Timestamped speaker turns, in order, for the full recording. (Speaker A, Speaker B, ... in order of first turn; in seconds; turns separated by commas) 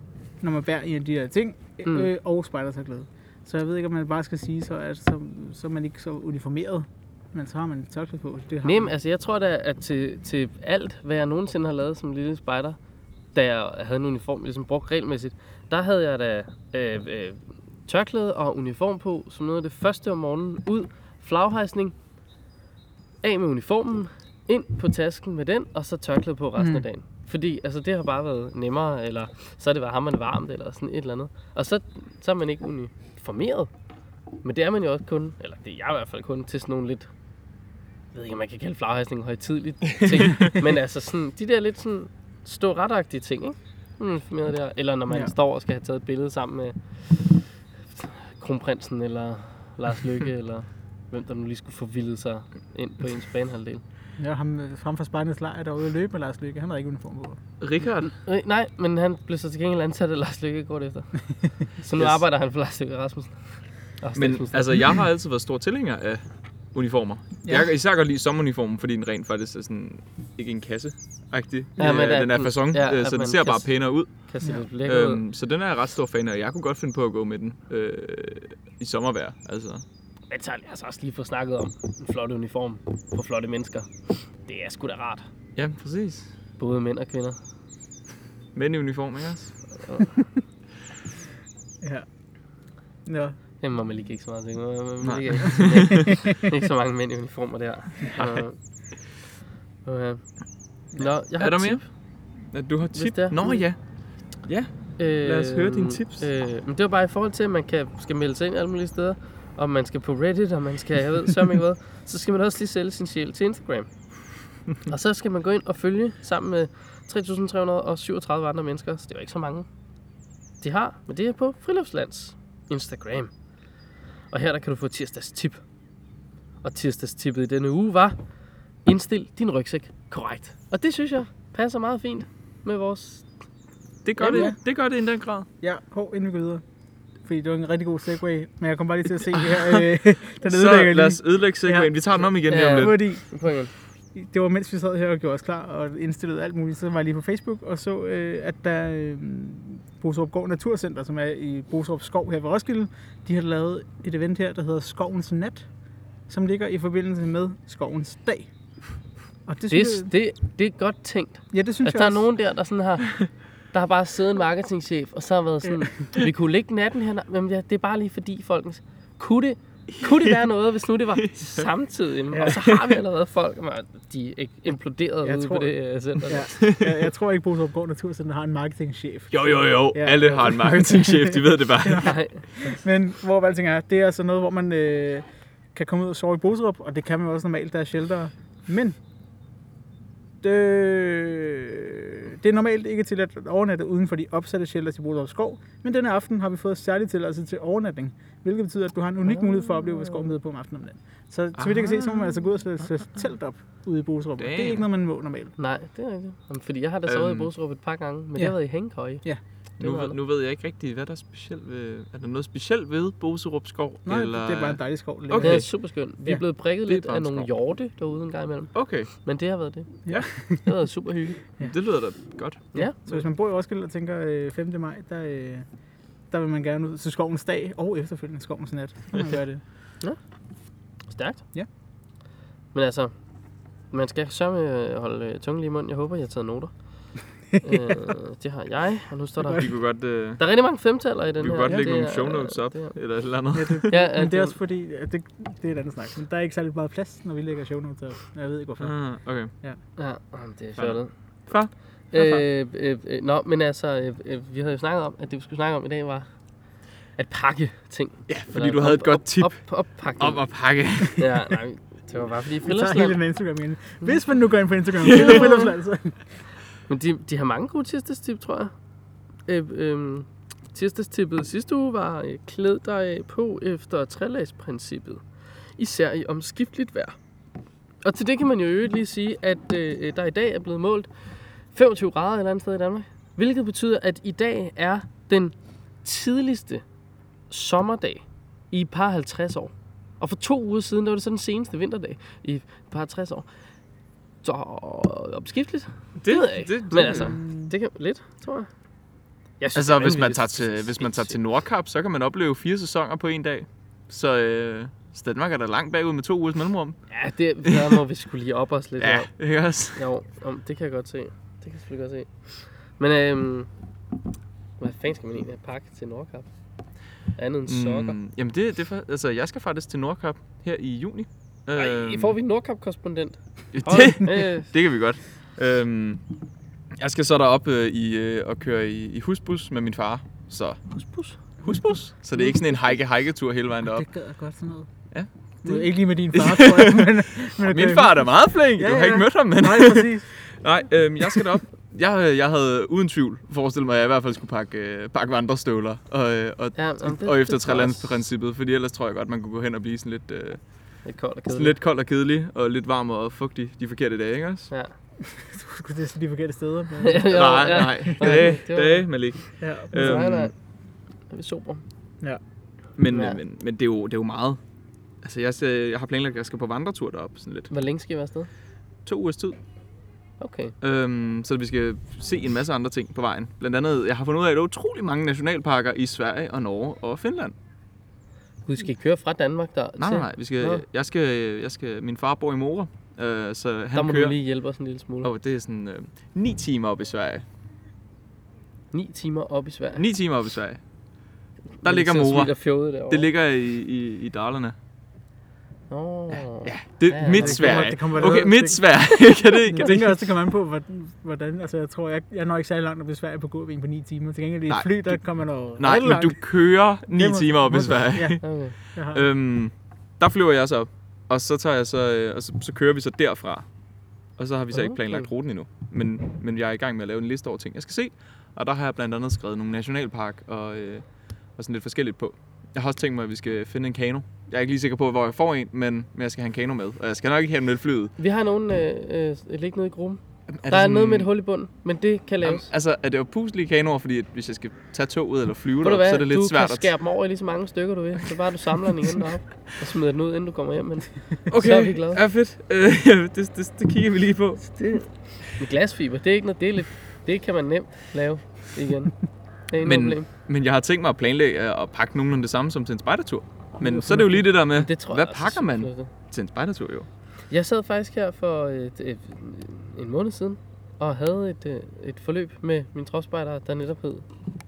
Speaker A: 0.4-8.9, Speaker B: 8.6-12.8, Speaker B: 13.3-21.9, Speaker B: 23.2-33.7, Speaker A: 26.6-26.8, Speaker B: 34.4-37.1, Speaker B: 38.1-53.8, Speaker C: 40.0-40.5, Speaker A: 54.2-57.4, Speaker C: 57.6-58.1, Speaker B: 58.1-64.8, Speaker C: 61.9-62.2, Speaker C: 64.2-66.2, Speaker C: 66.7-74.1, Speaker B: 71.8-73.7, Speaker B: 74.2-75.2, Speaker C: 74.8-79.8, Speaker B: 80.3-85.2, Speaker C: 85.5-86.3, Speaker B: 86.6-87.4, Speaker C: 88.5-89.6, Speaker B: 89.8-90.1, Speaker A: 93.0-93.4, Speaker B: 93.6-98.6, Speaker C: 95.0-96.1, Speaker C: 98.2-98.4, Speaker B: 99.8-100.2, Speaker B: 100.9-101.9, Speaker C: 101.4-101.9, Speaker C: 102.5-103.8, Speaker B: 102.9-103.6, Speaker C: 104.4-106.3, Speaker B: 105.0-113.9, Speaker B: 114.8-119.7, Speaker B: 120.6-123.3, Speaker B: 124.3-125.6, Speaker B: 126.6-128.2, Speaker B: 128.8-133.3, Speaker C: 134.0-135.5, Speaker B: 134.2-134.5, Speaker A: 134.2-134.6, Speaker A: 135.6-136.6, Speaker A: 137.2-141.9, Speaker C: 139.5-139.9, Speaker C: 140.4-143.0, Speaker B: 142.5-143.7, Speaker A: 142.7-143.2, Speaker A: 144.1-155.7, Speaker A: 156.3-158.5, Speaker A: 159.5-160.1, Speaker B: 159.7-176.5, Speaker A: 161.5-162.2, Speaker C: 169.9-170.4, Speaker C: 171.2-171.7, Speaker A: 172.3-172.6, Speaker C: 172.5-172.8, Speaker A: 175.2-175.7, Speaker A: 176.3-189.0, Speaker C: 176.6-176.9, Speaker C: 179.3-182.2, Speaker B: 182.0-182.8, Speaker A: 190.4-205.5, Speaker C: 201.6-202.4, Speaker C: 204.4-204.8, Speaker B: 205.6-209.2, Speaker C: 207.1-207.5, Speaker B: 209.8-210.2, Speaker C: 209.8-215.7, Speaker A: 214.1-215.7, Speaker B: 215.4-221.4, Speaker C: 216.8-217.5, Speaker C: 218.7-219.1, Speaker A: 220.1-220.7, Speaker C: 221.6-223.2, Speaker A: 223.0-225.7, Speaker A: 226.3-229.6, Speaker B: 231.1-231.4, Speaker B: 232.7-233.1, Speaker B: 233.9-236.7, Speaker A: 237.5-238.0, Speaker B: 237.6-239.7, Speaker C: 239.5-240.4, Speaker B: 240.4-242.9, Speaker C: 241.4-243.9, Speaker A: 243.5-248.9, Speaker B: 243.9-244.6, Speaker C: 248.8-249.5, Speaker B: 250.0-251.1, Speaker C: 250.8-252.4, Speaker B: 252.1-256.3, Speaker B: 257.1-260.4, Speaker C: 258.3-259.6, Speaker C: 260.2-261.5, Speaker B: 261.2-263.2, Speaker A: 262.6-266.2, Speaker C: 265.0-265.4, Speaker B: 265.0-265.7, Speaker B: 266.9-268.7, Speaker B: 269.4-275.2, Speaker B: 275.8-277.2, Speaker B: 278.0-286.8, Speaker B: 287.5-293.5, Speaker B: 294.4-298.7, Speaker C: 296.2-297.4, Speaker A: 297.1-297.7, Speaker B: 299.6-301.4, Speaker C: 299.7-307.0, Speaker B: 307.1-309.3, Speaker C: 307.6-308.0, Speaker C: 309.0-310.0, Speaker B: 309.9-313.7, Speaker B: 314.8-316.5, Speaker B: 317.4-318.1, Speaker C: 317.7-322.4, Speaker B: 321.7-324.7, Speaker C: 323.7-326.2, Speaker C: 327.0-330.8, Speaker B: 330.9-331.4, Speaker C: 331.6-334.1, Speaker A: 333.9-334.9, Speaker C: 335.1-350.6, Speaker A: 335.6-340.3, Speaker B: 346.7-348.1, Speaker B: 351.0-351.7, Speaker C: 351.5-354.7, Speaker B: 354.7-354.9, Speaker A: 355.2-358.4, Speaker B: 357.0-359.0, Speaker C: 357.3-360.5, Speaker A: 359.6-360.3, Speaker B: 359.9-360.5, Speaker B: 361.3-361.8, Speaker C: 363.0-364.6, Speaker B: 363.1-363.4, Speaker C: 365.2-367.7, Speaker B: 367.7-368.5, Speaker C: 369.1-369.6, Speaker B: 370.4-370.7, Speaker C: 370.8-377.5, Speaker B: 378.6-380.8, Speaker C: 380.0-384.3, Speaker B: 383.9-385.3, Speaker C: 385.2-387.4, Speaker B: 388.9-390.0, Speaker C: 389.9-390.8, Speaker B: 391.8-393.3, Speaker C: 391.8-394.7, Speaker B: 395.9-397.9, Speaker C: 396.6-400.2, Speaker A: 397.3-406.4, Speaker C: 404.7-405.1, Speaker C: 405.8-413.6, Speaker A: 407.1-408.4, Speaker B: 408.4-408.8, Speaker A: 408.9-409.2, Speaker C: 414.4-421.0, Speaker B: 414.7-415.3, Speaker C: 421.6-428.1, Speaker B: 428.2-432.7, Speaker C: 430.6-431.3, Speaker C: 432.4-436.9, Speaker B: 435.8-442.2, Speaker C: 441.5-444.8, Speaker B: 444.7-449.2, Speaker B: 449.7-450.3, Speaker C: 449.8-457.1, Speaker A: 453.8-454.5, Speaker B: 454.7-456.1, Speaker B: 457.5-464.2